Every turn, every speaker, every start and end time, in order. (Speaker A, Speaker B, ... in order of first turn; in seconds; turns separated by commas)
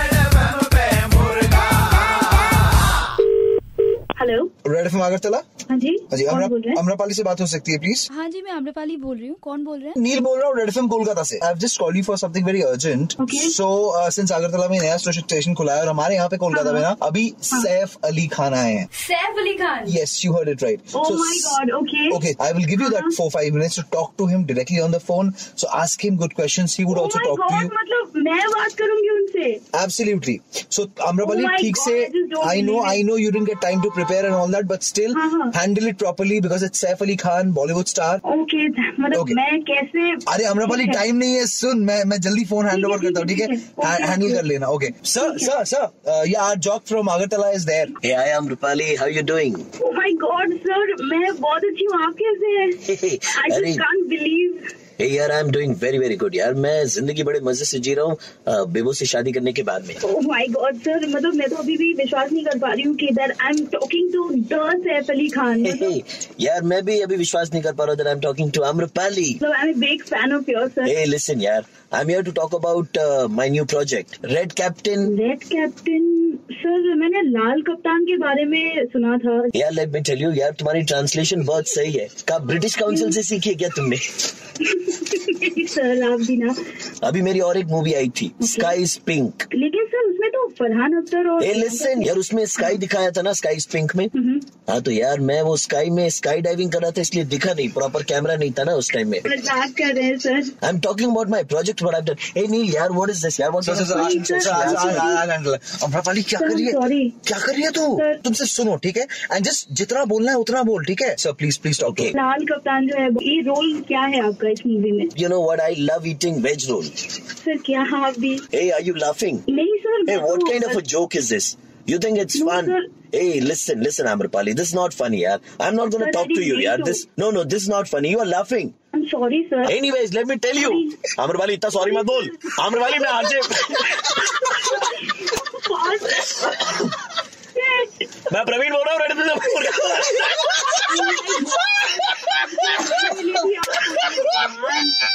Speaker A: 4.2-4.5, Speaker B: 4.6-5.4, Speaker A: 5.7-6.8, Speaker B: 6.1-8.1, Speaker C: 8.1-9.9, Speaker A: 8.3-9.8, Speaker B: 9.9-18.9, Speaker A: 13.2-13.5, Speaker A: 16.5-16.9, Speaker A: 19.1-19.8, Speaker C: 19.2-19.7, Speaker B: 19.8-21.6, Speaker A: 20.9-22.2, Speaker B: 22.1-27.7, Speaker A: 22.8-23.1, Speaker A: 26.9-29.6, Speaker B: 29.7-38.2, Speaker A: 31.2-33.0, Speaker A: 35.1-35.5, Speaker A: 38.2-41.0, Speaker B: 39.1-39.4, Speaker B: 40.3-47.9, Speaker A: 42.7-44.4, Speaker A: 45.2-45.5, Speaker D: 48.0-49.7, Speaker A: 49.8-54.7, Speaker D: 52.9-53.8, Speaker D: 55.0-60.0, Speaker A: 60.0-65.9, Speaker D: 65.6-69.4, Speaker A: 69.4-70.9, Speaker D: 70.8-75.1, Speaker A: 75.0-79.5, Speaker D: 79.5-84.1, Speaker A: 82.9-83.2, Speaker A: 84.6-86.6, Speaker D: 87.0-89.5, Speaker A: 88.4-88.8, Speaker A: 89.5-92.1, Speaker D: 91.4-94.1, Speaker A: 94.1-94.5, Speaker D: 94.7-99.3, Speaker A: 99.3-100.5, Speaker D: 100.6-105.1, Speaker B: 103.6-106.8, Speaker A: 103.9-105.2, Speaker A: 106.4-107.2, Speaker D: 107.3-107.7, Speaker B: 107.3-112.1, Speaker A: 108.0-108.2, Speaker D: 111.8-112.2, Speaker A: 112.1-115.1, Speaker D: 115.2-117.0, Speaker A: 117.4-118.5, Speaker D: 118.5-119.5, Speaker A: 119.5-120.8, Speaker D: 120.1-128.7, Speaker A: 122.3-122.9, Speaker A: 126.0-127.0, Speaker A: 128.9-129.8, Speaker D: 129.7-134.6, Speaker A: 130.6-131.0, Speaker A: 131.7-133.1, Speaker A: 134.4-136.9, Speaker A: 137.6-138.1, Speaker D: 138.3-142.3, Speaker A: 140.7-145.0